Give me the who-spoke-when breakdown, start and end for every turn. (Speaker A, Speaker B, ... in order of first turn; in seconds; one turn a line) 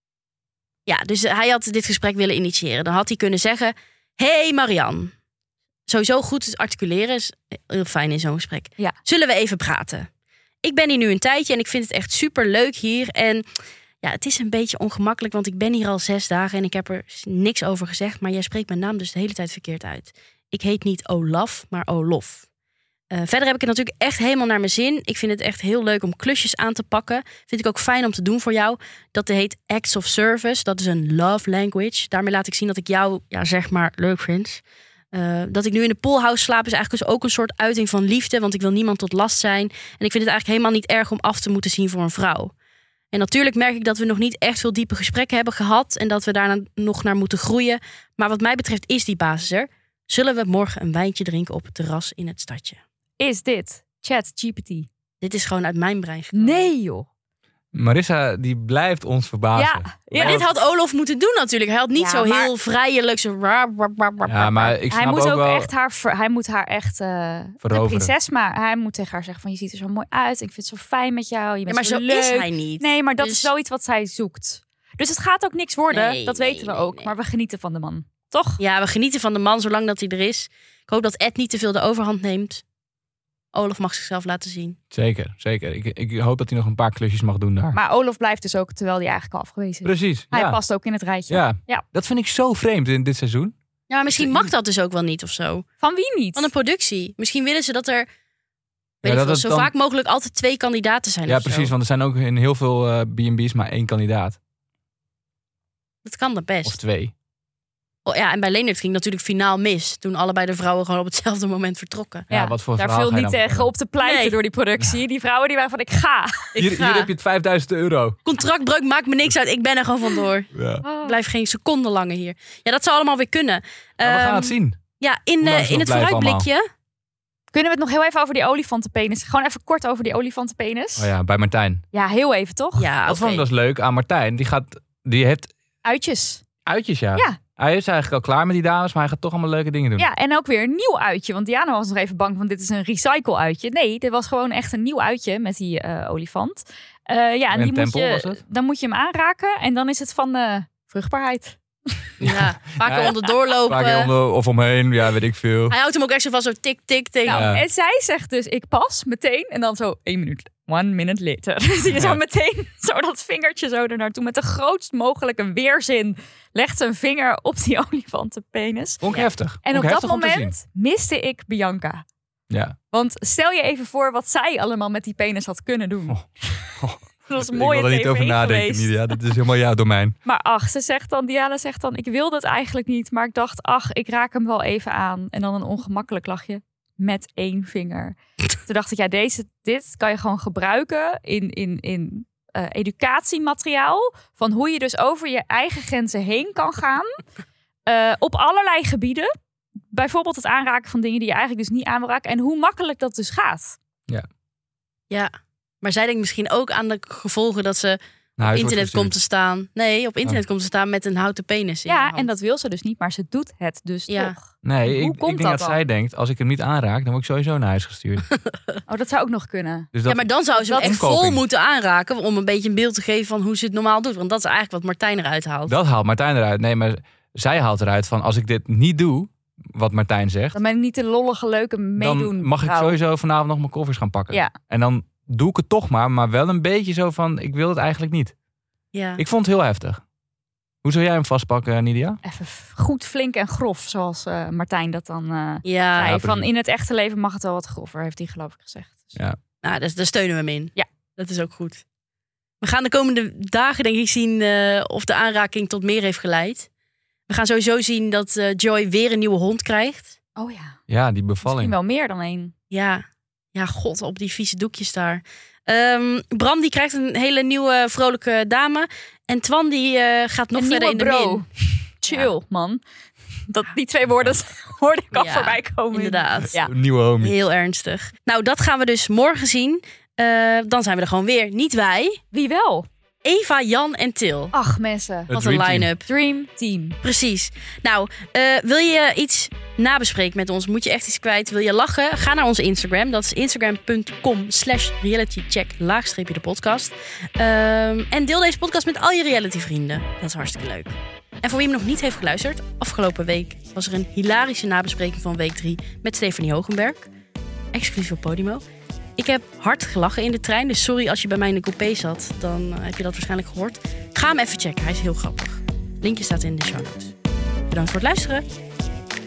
Speaker A: 0.9-5.1
Speaker A: 5.9-10.1
Speaker A: 10.6-13.4
Speaker A: 14.0-22.4
Speaker A: 23.1-34.6
Speaker A: 35.1-42.5
Speaker A: 43.1-52.8
Speaker B: 53.2-54.9
Speaker A: 55.2-56.7
Speaker B: 56.3-57.1
Speaker C: 57.7-60.5
Speaker B: 59.5-60.4
Speaker A: 60.1-64.8
Speaker B: 62.0-62.5
Speaker C: 64.3-65.7
Speaker B: 64.9-78.6
Speaker C: 67.6-68.1
Speaker A: 71.7-73.5
Speaker A: 75.9-77.1
Speaker A: 78.6-82.6
Speaker A: 83.5-84.8
Speaker C: 84.9-87.8
Speaker B: 87.7-91.8
Speaker C: 89.8-90.6
Speaker C: 91.3-93.5
Speaker A: 93.9-95.7
Speaker C: 94.1-94.5
Speaker B: 95.8-96.5
Speaker A: 96.3-98.1
Speaker A: 99.0-101.7
Speaker C: 99.0-99.7
Speaker C: 101.3-104.4
Speaker A: 106.0-106.8
Speaker C: 106.6-107.1
Speaker A: 108.1-112.3
Speaker C: 112.3-113.7
Speaker B: 112.3-116.5
Speaker A: 114.0-114.3
Speaker A: 116.5-117.1
Speaker C: 116.6-118.2
Speaker A: 118.2-120.5
Speaker C: 120.5-120.8
Speaker B: 120.8-121.2
Speaker A: 121.0-126.6
Speaker C: 124.0-124.8
Speaker C: 125.4-126.5
Speaker B: 127.5-131.1
Speaker C: 131.0-131.8
Speaker B: 131.9-132.9
Speaker A: 132.8-133.4
Speaker C: 133.1-135.5
Speaker B: 135.8-136.4
Speaker C: 136.7-140.1
Speaker B: 140.0-152.1
Speaker C: 147.5-148.4
Speaker A: 152.2-154.1
Speaker C: 152.2-155.8
Speaker A: 155.7-157.5
Speaker B: 157.2-172.1
Speaker C: 157.3-157.6
Speaker C: 161.9-162.2
Speaker C: 169.0-170.6
Speaker C: 172.5-172.8
Speaker B: 172.9-176.7
Speaker C: 176.8-180.2
Speaker B: 177.3-179.2
Speaker B: 180.2-197.2
Speaker B: 197.9-199.3
Speaker B: 199.9-203.8
Speaker A: 205.1-208.0
Speaker C: 208.4-209.1
Speaker A: 208.5-212.3
Speaker B: 211.9-215.8
Speaker A: 214.1-214.3
Speaker C: 214.6-218.3
Speaker B: 218.9-219.9
Speaker C: 219.9-221.4
Speaker A: 220.1-225.8
Speaker B: 220.6-221.0
Speaker C: 225.7-230.6
Speaker B: 230.6-232.9
Speaker C: 232.0-238.3
Speaker A: 238.9-239.2
Speaker C: 239.2-240.0
Speaker C: 240.8-242.2
Speaker B: 242.2-249.2
Speaker A: 245.7-246.2
Speaker C: 246.0-246.5
Speaker A: 249.6-251.8
Speaker A: 252.6-256.7
Speaker A: 257.3-260.2
Speaker B: 260.4-260.8
Speaker C: 260.9-261.8
Speaker B: 261.4-262.5
Speaker A: 262.7-263.0
Speaker A: 263.6-271.4
Speaker B: 270.6-272.8
Speaker B: 273.5-276.7
Speaker A: 275.1-276.6
Speaker C: 276.5-277.3
Speaker A: 277.2-282.2
Speaker B: 282.3-282.9
Speaker A: 283.2-284.5
Speaker B: 284.5-285.3
Speaker C: 285.3-285.9
Speaker A: 285.3-286.1
Speaker B: 286.1-287.0
Speaker A: 287.0-307.1
Speaker A: 307.7-308.6
Speaker A: 309.2-317.1
Speaker A: 317.7-318.4